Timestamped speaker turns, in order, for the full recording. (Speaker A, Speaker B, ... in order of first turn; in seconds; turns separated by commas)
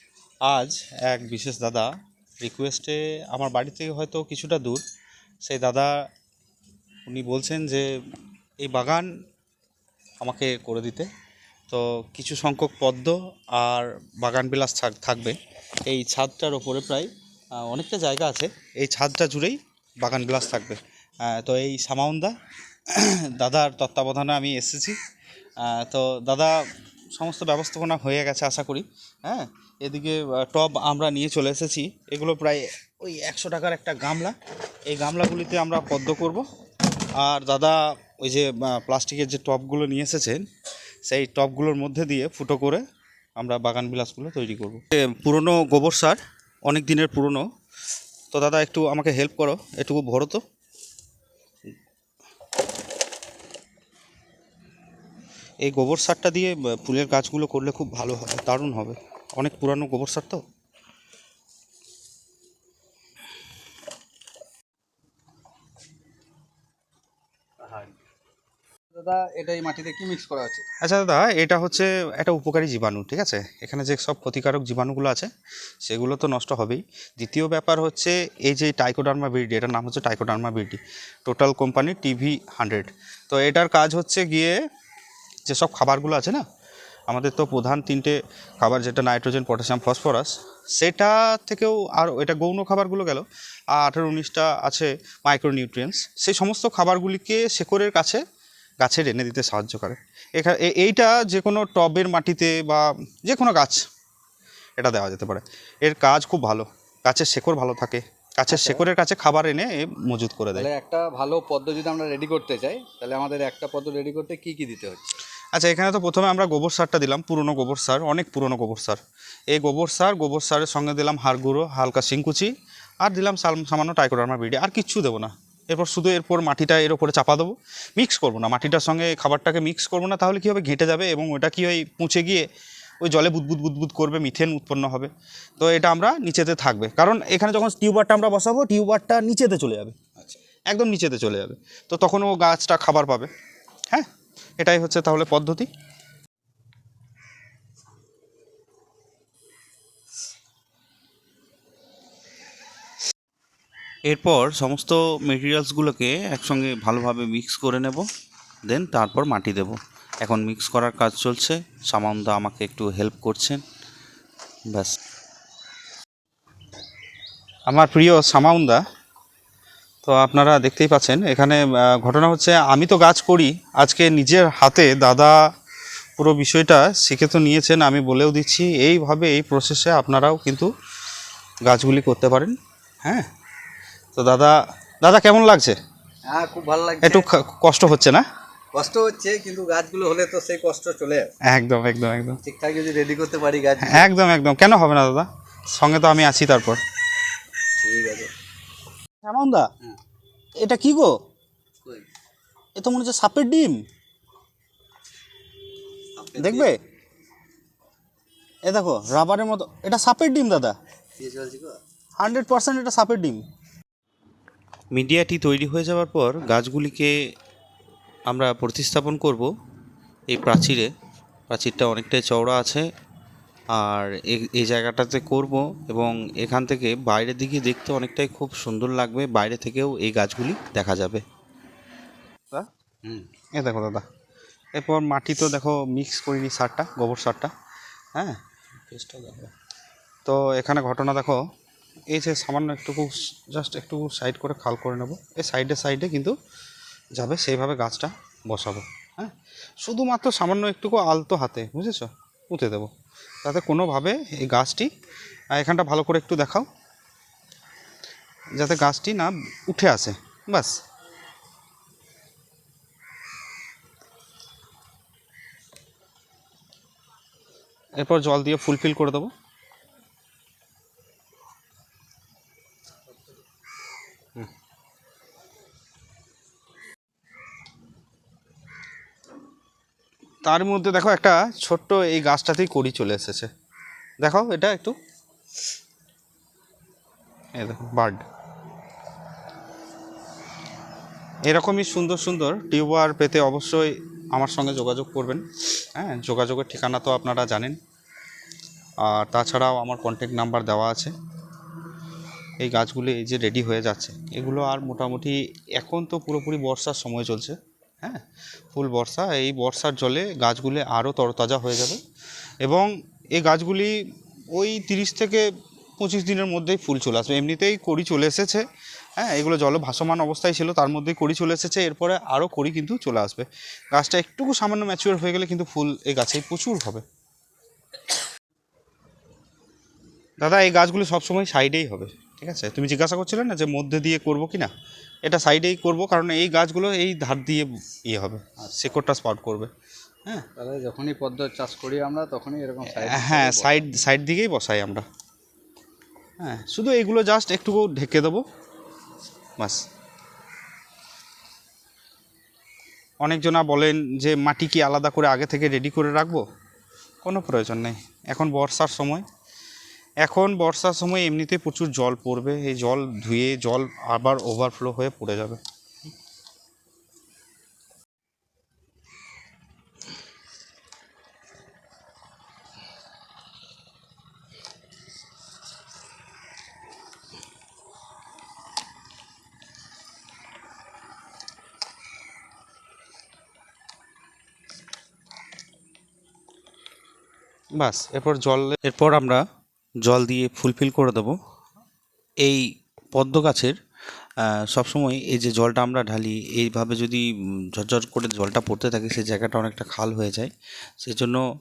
Speaker A: 0.4-1.9, Speaker A: 2.4-4.8, Speaker A: 5.4-6.0, Speaker A: 7.1-7.9, Speaker A: 8.6-9.1, Speaker A: 10.2-11.1, Speaker A: 11.7-22.4, Speaker A: 22.9-25.0, Speaker A: 25.6-34.4, Speaker A: 34.9-36.4, Speaker A: 37.2-40.5, Speaker A: 41.0-42.8, Speaker A: 43.4-47.5, Speaker A: 48.3-50.4, Speaker A: 55.6-60.4, Speaker B: 67.6-67.9, Speaker B: 68.9-70.6, Speaker A: 70.8-75.3, Speaker A: 75.8-84.6, Speaker A: 85.5-86.4, Speaker A: 87.1-98.2, Speaker A: 98.8-103.8, Speaker A: 104.8-110.7, Speaker B: 108.5-108.8, Speaker B: 110.5-115.2, Speaker A: 115.5-132.4, Speaker A: 133.0-139.9, Speaker A: 140.7-143.3, Speaker A: 144.6-145.7, Speaker A: 154.1-158.1, Speaker A: 158.7-163.6, Speaker A: 164.7-165.0, Speaker A: 167.7-168.8, Speaker A: 170.0-175.4, Speaker A: 176.2-180.7, Speaker A: 181.6-183.3, Speaker A: 184.1-185.8, Speaker B: 186.2-187.3, Speaker A: 187.0-188.2, Speaker B: 188.7-191.3, Speaker A: 191.4-192.4, Speaker B: 192.4-194.1, Speaker A: 193.8-196.8, Speaker B: 197.8-198.3, Speaker A: 199.2-199.7, Speaker A: 200.6-201.2, Speaker A: 202.8-203.8, Speaker B: 206.2-206.7, Speaker A: 206.4-206.8, Speaker A: 208.7-210.8, Speaker B: 211.2-211.8, Speaker A: 212.2-213.4, Speaker A: 214.9-217.1, Speaker A: 218.3-219.5, Speaker A: 220.3-220.9, Speaker A: 221.5-222.8, Speaker A: 223.7-231.2, Speaker A: 233.5-234.1, Speaker A: 234.7-237.5, Speaker A: 238.1-239.5, Speaker A: 240.2-241.4, Speaker A: 242.1-246.3, Speaker A: 247.2-252.9, Speaker A: 253.4-254.9, Speaker A: 255.5-256.7, Speaker A: 258.6-260.8, Speaker A: 268.0-269.3, Speaker A: 280.4-283.5, Speaker A: 284.2-284.9, Speaker A: 287.6-288.2, Speaker A: 291.5-297.8, Speaker A: 299.0-301.1, Speaker A: 302.6-312.0, Speaker A: 312.6-314.0, Speaker A: 314.5-327.0, Speaker A: 330.4-334.7, Speaker A: 335.2-339.7, Speaker B: 340.6-343.9, Speaker A: 342.9-345.1, Speaker A: 346.4-348.4, Speaker A: 349.6-349.8, Speaker A: 353.2-356.4, Speaker A: 357.2-359.2, Speaker A: 360.2-365.6, Speaker A: 387.8-389.4, Speaker A: 390.0-391.4, Speaker A: 392.4-393.8, Speaker A: 394.4-401.4